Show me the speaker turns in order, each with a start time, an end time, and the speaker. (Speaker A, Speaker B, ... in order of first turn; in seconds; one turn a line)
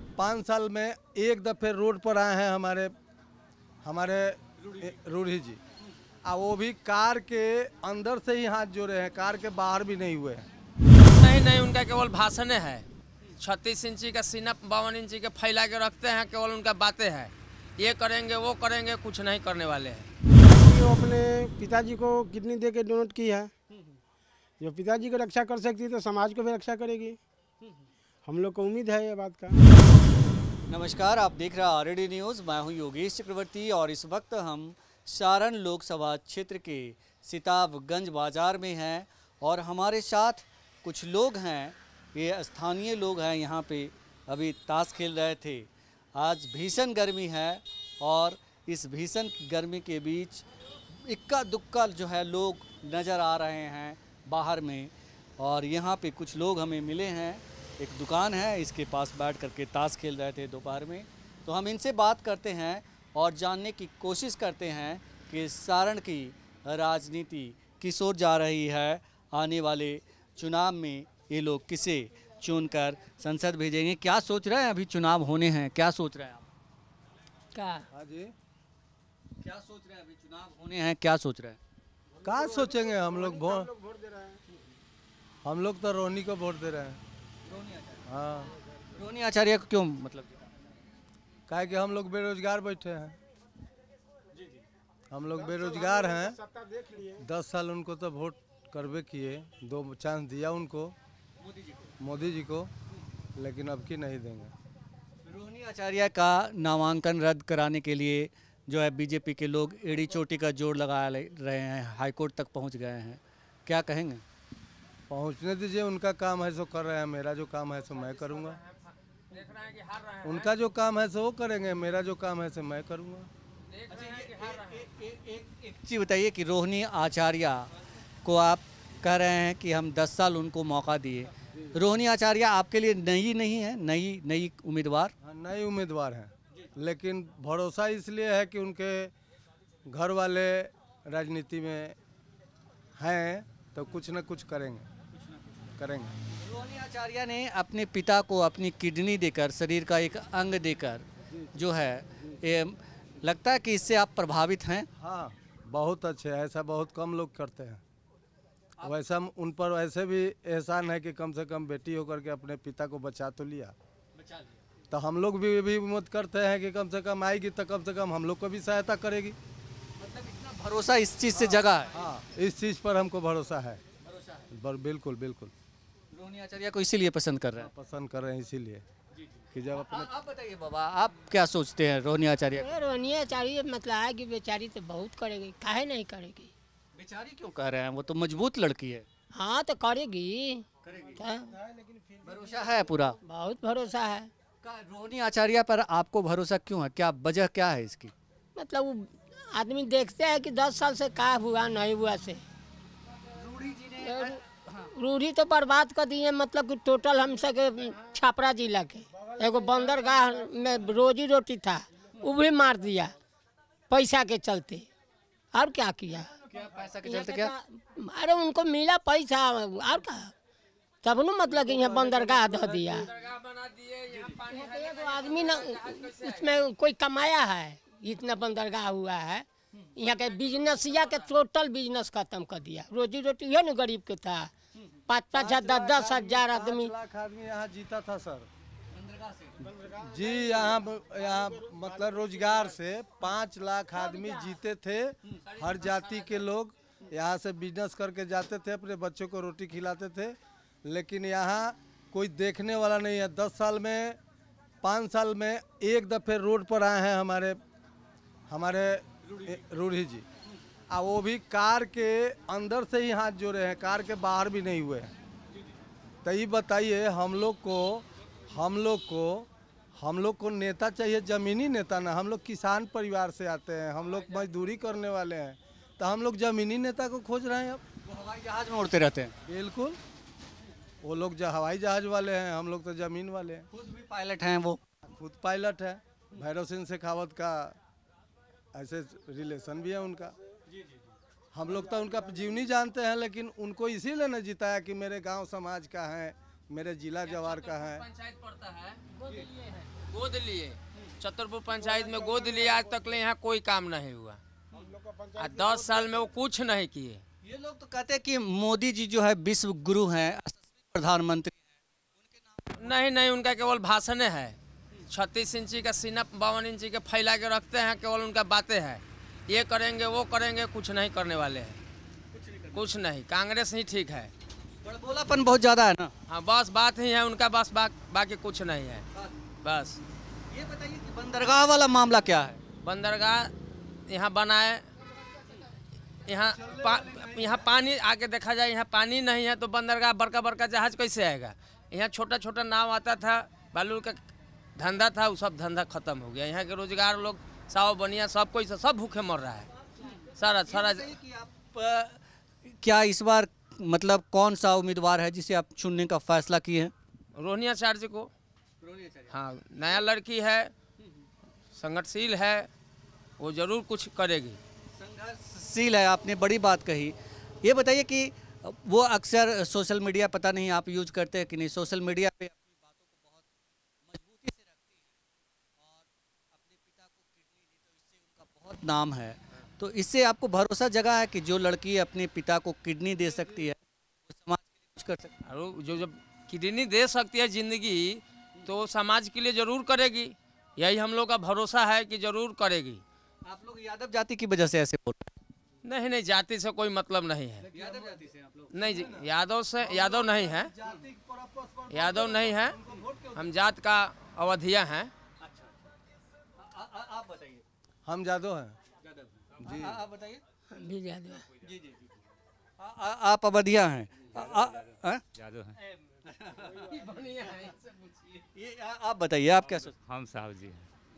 Speaker A: 0.2-2.9
Speaker A: 3.8-5.6
Speaker B: 4.6-4.9
Speaker A: 6.2-10.5
Speaker C: 11.1-20.1
Speaker D: 20.4-23.5
Speaker B: 23.7-24.0
Speaker D: 24.6-27.2
Speaker D: 28.2-29.6
Speaker B: 30.7-76.5
Speaker E: 77.5-77.9
Speaker A: 77.9-78.3
Speaker B: 79.4-81.6
Speaker A: 82.2-83.7
Speaker D: 82.3-84.4
Speaker A: 85.4-87.0
Speaker B: 87.5-88.1
Speaker A: 88.1-88.5
Speaker B: 89.0-90.5
Speaker A: 91.5-93.2
Speaker B: 94.3-94.6
Speaker A: 95.1-96.4
Speaker D: 95.4-97.2
Speaker A: 97.2-101.0
Speaker B: 101.4-102.0
Speaker A: 102.0-102.7
Speaker A: 103.4-104.5
Speaker B: 105.2-114.2
Speaker A: 115.1-118.6
Speaker C: 118.2-120.5
Speaker A: 120.2-123.3
Speaker C: 123.7-124.9
Speaker B: 123.9-135.1
Speaker A: 135.2-139.1
Speaker A: 139.9-142.0
Speaker A: 143.0-144.9
Speaker B: 145.1-145.7
Speaker A: 145.8-146.2
Speaker B: 146.3-154.9
Speaker A: 155.0-157.8
Speaker A: 158.8-163.8
Speaker B: 164.1-164.7
Speaker A: 164.9-169.4
Speaker B: 170.0-172.0
Speaker A: 171.3-173.8
Speaker B: 174.0-174.5
Speaker A: 174.5-175.5
Speaker B: 176.1-177.7
Speaker A: 177.6-178.8
Speaker B: 179.1-182.7
Speaker A: 179.5-180.1
Speaker E: 182.6-186.5
Speaker B: 186.9-189.1
Speaker E: 189.3-190.7
Speaker B: 190.8-191.2
Speaker E: 191.2-191.6
Speaker D: 191.6-192.9
Speaker B: 192.2-193.2
Speaker E: 193.2-194.3
Speaker B: 194.6-198.1
Speaker E: 198.6-202.4
Speaker B: 203.3-204.9
Speaker E: 204.0-204.4
Speaker E: 204.9-213.1
Speaker E: 213.9-214.9
Speaker E: 215.5-216.3
Speaker B: 216.5-217.5
Speaker E: 217.0-220.3
Speaker E: 221.0-223.1
Speaker D: 221.9-222.9
Speaker C: 223.1-226.6
Speaker E: 224.5-234.5
Speaker E: 235.1-236.9
Speaker A: 235.3-238.5
Speaker B: 238.9-239.7
Speaker D: 239.6-242.7
Speaker A: 240.0-254.2
Speaker E: 244.0-244.6
Speaker C: 245.5-246.5
Speaker A: 254.8-257.6
Speaker A: 258.5-260.3
Speaker B: 259.2-259.6
Speaker A: 260.9-265.1
Speaker A: 266.2-277.8
Speaker B: 278.0-279.4
Speaker A: 279.5-280.0
Speaker A: 281.0-283.7
Speaker B: 283.7-284.8
Speaker A: 285.1-287.8
Speaker A: 288.7-290.4
Speaker B: 290.7-291.1
Speaker A: 291.5-298.1
Speaker D: 291.8-292.3
Speaker C: 297.2-299.1
Speaker B: 299.2-299.6
Speaker C: 299.9-304.4
Speaker D: 301.8-303.2
Speaker D: 304.7-306.3
Speaker C: 305.4-307.2
Speaker B: 307.4-313.0
Speaker C: 312.8-314.6
Speaker C: 315.1-321.8
Speaker B: 322.3-323.0
Speaker C: 322.7-324.3
Speaker B: 324.8-326.1
Speaker C: 326.3-329.1
Speaker B: 329.1-329.5
Speaker C: 329.6-330.0
Speaker B: 330.5-332.6
Speaker C: 332.8-333.5
Speaker C: 334.1-334.9
Speaker C: 336.3-349.7
Speaker B: 336.5-337.6
Speaker B: 349.9-356.9
Speaker C: 350.3-351.1
Speaker C: 357.4-358.3
Speaker B: 358.8-359.4
Speaker C: 359.3-360.7
Speaker B: 361.0-361.3
Speaker C: 361.7-362.7
Speaker C: 363.4-364.6
Speaker B: 364.9-375.2
Speaker B: 375.8-385.4
Speaker C: 385.4-393.0
Speaker B: 393.4-395.3
Speaker C: 395.8-397.6
Speaker A: 397.6-398.3
Speaker B: 397.7-398.9
Speaker C: 398.7-400.7
Speaker A: 398.8-403.5
Speaker C: 401.9-402.8
Speaker C: 403.4-405.1
Speaker B: 405.4-405.8
Speaker B: 406.6-407.6
Speaker A: 408.1-408.8
Speaker B: 409.0-410.4
Speaker A: 409.6-410.0
Speaker E: 410.7-411.5
Speaker B: 411.6-415.3
Speaker F: 414.4-414.7
Speaker F: 415.4-415.8
Speaker B: 416.0-416.9
Speaker C: 416.9-418.3
Speaker B: 418.4-419.9
Speaker F: 419.7-420.9